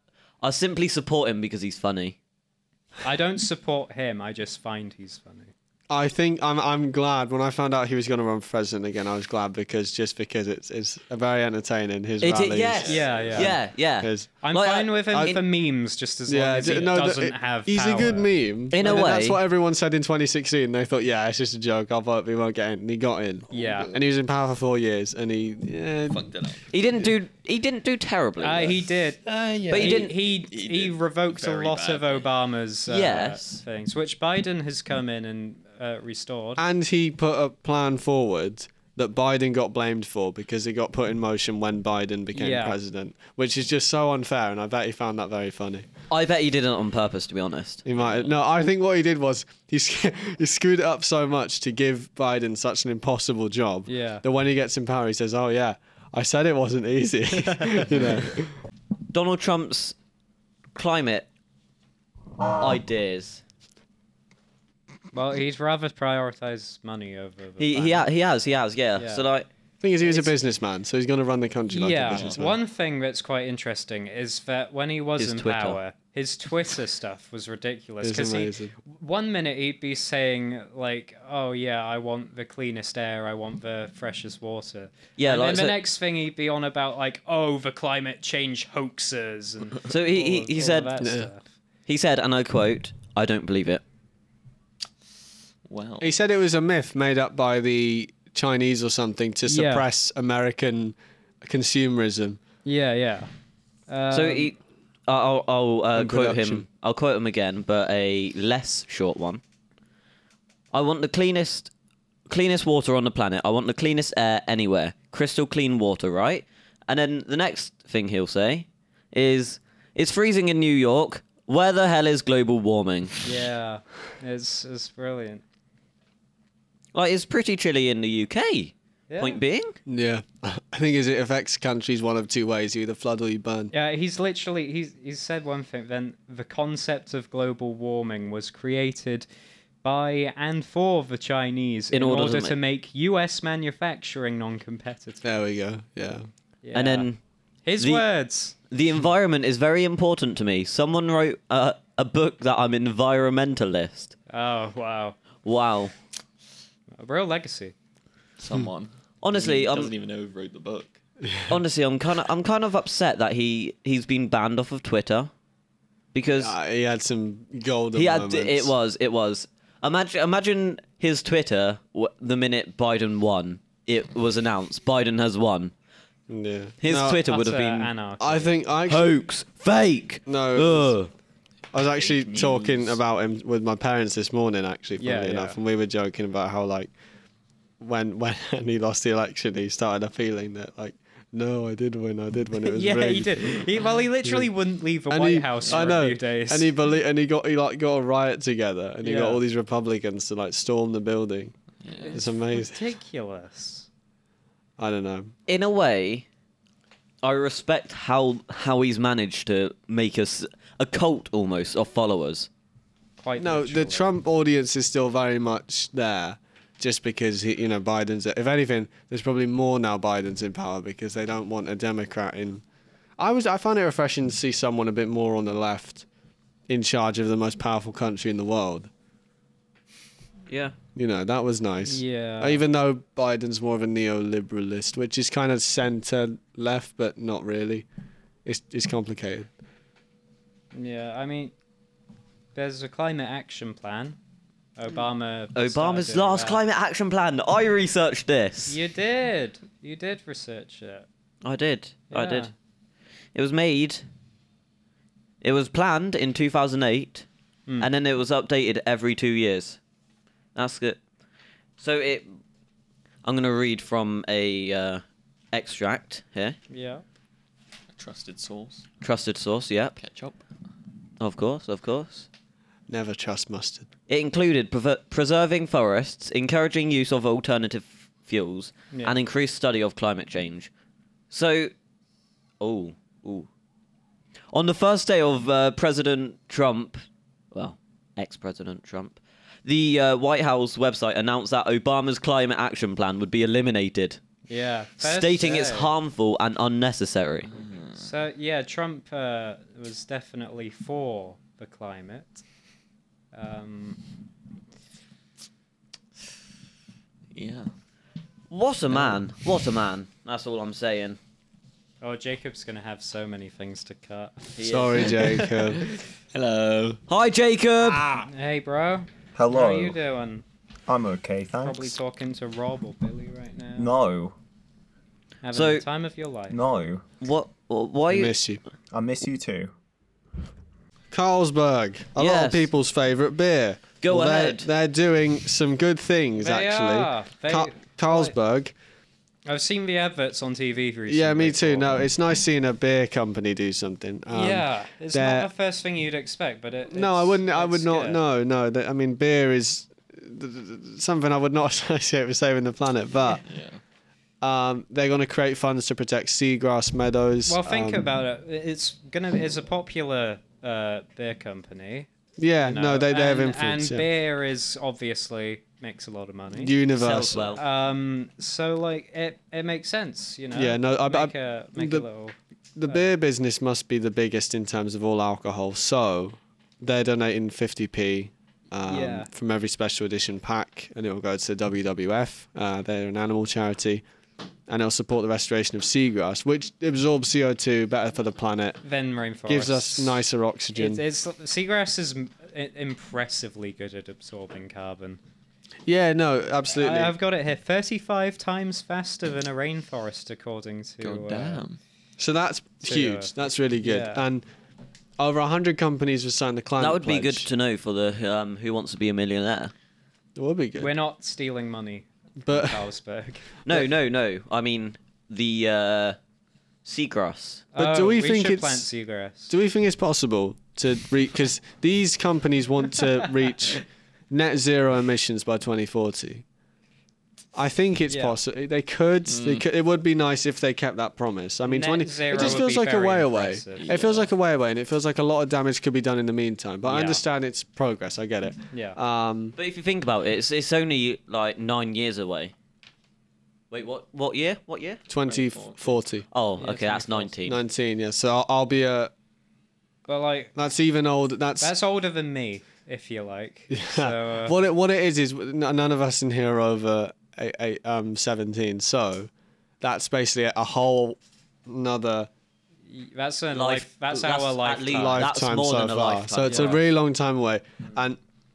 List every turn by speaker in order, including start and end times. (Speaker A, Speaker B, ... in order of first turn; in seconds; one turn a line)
Speaker A: 0.4-2.1
Speaker B: 3.0-5.5
Speaker C: 5.9-14.3
Speaker A: 12.2-15.4
Speaker D: 12.8-13.4
Speaker B: 12.9-13.5
Speaker B: 14.4-18.3
Speaker C: 16.3-26.2
Speaker A: 18.7-19.4
Speaker B: 23.5-23.9
Speaker D: 23.5-23.9
Speaker D: 26.1-26.7
Speaker A: 26.7-28.8
Speaker B: 28.4-36.6
Speaker D: 29.2-32.3
Speaker A: 29.7-30.1
Speaker A: 32.9-33.6
Speaker C: 36.6-45.9
Speaker B: 42.3-42.8
Speaker A: 46.1-47.8
Speaker C: 47.9-58.5
Speaker B: 53.9-54.2
Speaker A: 59.1-59.9
Speaker A: 60.8-61.3
Speaker A: 62.6-63.4
Speaker B: 65.1-68.1
Speaker A: 67.6-69.5
Speaker B: 69.0-69.2
Speaker C: 69.8-72.5
Speaker B: 70.0-70.3
Speaker B: 71.7-91.4
Speaker D: 72.1-72.4
Speaker A: 75.2-75.8
Speaker C: 78.0-78.7
Speaker A: 85.2-85.8
Speaker A: 89.9-90.9
Speaker C: 91.0-91.3
Speaker A: 91.9-93.8
Speaker D: 95.7-96.1
Speaker C: 96.0-102.4
Speaker B: 99.5-99.8
Speaker B: 102.6-103.3
Speaker B: 103.9-104.5
Speaker A: 104.1-104.5
Speaker A: 105.1-109.4
Speaker C: 105.9-106.6
Speaker A: 110.7-111.7
Speaker A: 112.3-123.2
Speaker B: 123.2-125.4
Speaker A: 126.9-129.8
Speaker B: 129.1-129.4
Speaker C: 129.8-133.7
Speaker B: 133.7-139.3
Speaker B: 139.8-145.3
Speaker A: 141.9-142.6
Speaker C: 145.2-146.3
Speaker B: 146.6-147.1
Speaker A: 146.7-147.2
Speaker B: 147.6-148.6
Speaker A: 147.8-148.0
Speaker A: 148.7-154.1
Speaker B: 154.3-155.2
Speaker A: 155.4-155.9
Speaker B: 157.0-157.7
Speaker D: 158.4-161.0
Speaker A: 159.2-159.9
Speaker A: 161.5-165.3
Speaker A: 166.1-166.5
Speaker C: 166.3-168.7
Speaker A: 167.9-175.7
Speaker C: 176.3-177.2
Speaker A: 176.8-177.9
Speaker B: 177.2-178.5
Speaker C: 178.2-179.1
Speaker A: 178.9-181.1
Speaker C: 180.2-181.0
Speaker C: 181.7-186.9
Speaker D: 182.0-183.0
Speaker B: 185.0-185.6
Speaker C: 187.8-193.6
Speaker B: 192.6-196.7
Speaker C: 194.2-194.5
Speaker C: 195.1-201.5
Speaker D: 195.6-195.9
Speaker B: 199.0-199.4
Speaker D: 201.8-202.2
Speaker B: 202.0-203.9
Speaker C: 202.1-202.8
Speaker C: 204.8-205.3
Speaker A: 205.5-206.2
Speaker A: 207.2-212.5
Speaker B: 213.2-214.1
Speaker C: 213.4-222.6
Speaker C: 223.2-226.0
Speaker C: 226.7-228.9
Speaker A: 230.5-230.7
Speaker C: 230.9-237.8
Speaker B: 231.8-232.6
Speaker C: 238.4-239.5
Speaker B: 240.7-241.5
Speaker B: 242.5-244.2
Speaker B: 244.8-246.6
Speaker A: 245.5-248.8
Speaker B: 248.7-251.1
Speaker A: 251.4-252.5
Speaker B: 252.1-252.5
Speaker A: 253.3-254.0
Speaker A: 255.4-257.2
Speaker A: 257.8-259.8
Speaker A: 260.5-261.0
Speaker A: 261.8-262.3
Speaker A: 263.2-266.6
Speaker B: 266.7-267.0
Speaker D: 267.9-268.9
Speaker A: 269.0-269.9
Speaker D: 270.0-270.4
Speaker A: 271.2-272.3
Speaker C: 272.9-273.9
Speaker A: 274.1-280.7
Speaker A: 281.3-281.7
Speaker A: 282.6-283.5
Speaker A: 284.5-294.2
Speaker B: 294.5-295.9
Speaker A: 295.0-297.5
Speaker D: 297.5-298.1
Speaker B: 297.9-302.4
Speaker B: 303.3-304.0
Speaker D: 307.3-307.7
Speaker A: 308.5-311.2
Speaker B: 312.0-314.5
Speaker D: 314.6-317.0
Speaker C: 314.6-315.8
Speaker A: 314.6-315.0
Speaker A: 317.1-318.1
Speaker B: 318.2-320.4
Speaker E: 319.4-319.9
Speaker E: 320.9-321.9
Speaker B: 321.5-323.9
Speaker E: 323.8-324.3
Speaker B: 325.4-326.6
Speaker A: 325.5-325.8
Speaker E: 326.5-327.0
Speaker A: 327.2-328.3
Speaker C: 328.1-328.6
Speaker E: 328.9-329.7
Speaker C: 331.1-338.7
Speaker A: 332.2-332.7
Speaker A: 334.0-334.7
Speaker B: 336.4-338.3
Speaker B: 339.4-342.0
Speaker C: 341.1-345.5
Speaker B: 344.3-348.2
Speaker C: 346.9-353.4
Speaker D: 353.4-353.8
Speaker C: 354.4-358.0
Speaker B: 357.4-362.1
Speaker C: 362.4-364.1
Speaker B: 362.6-366.8
Speaker C: 366.5-367.5
Speaker A: 367.0-367.6
Speaker B: 367.5-372.3
Speaker C: 370.5-372.1
Speaker C: 372.8-384.0
Speaker B: 378.9-379.3
Speaker C: 384.7-388.8
Speaker B: 388.8-395.2
Speaker C: 389.5-391.0
Speaker C: 395.9-397.1
Speaker B: 396.7-401.6
Speaker D: 401.0-401.8
Speaker C: 402.2-404.4
Speaker B: 402.8-403.3
Speaker B: 403.8-404.2
Speaker C: 405.2-407.5
Speaker A: 406.8-409.7
Speaker C: 410.4-410.9
Speaker B: 410.8-413.5
Speaker C: 412.4-412.8
Speaker A: 413.6-416.2
Speaker A: 416.8-417.6
Speaker B: 417.7-419.5
Speaker C: 417.8-418.9
Speaker C: 419.5-426.4
Speaker C: 427.5-439.5
Speaker B: 428.1-428.4
Speaker D: 429.3-429.6
Speaker B: 431.6-434.0
Speaker D: 433.8-434.2
Speaker B: 436.9-437.2
Speaker B: 438.7-439.0
Speaker A: 439.6-442.5
Speaker A: 443.7-445.0
Speaker C: 445.1-446.2
Speaker D: 445.3-445.9
Speaker A: 446.3-447.6
Speaker B: 446.6-447.3
Speaker C: 447.4-449.1
Speaker B: 450.1-450.5
Speaker C: 450.6-451.7
Speaker B: 451.6-454.6
Speaker C: 453.7-459.3
Speaker C: 459.8-462.3
Speaker B: 462.9-465.3
Speaker A: 463.5-466.7
Speaker C: 464.9-468.2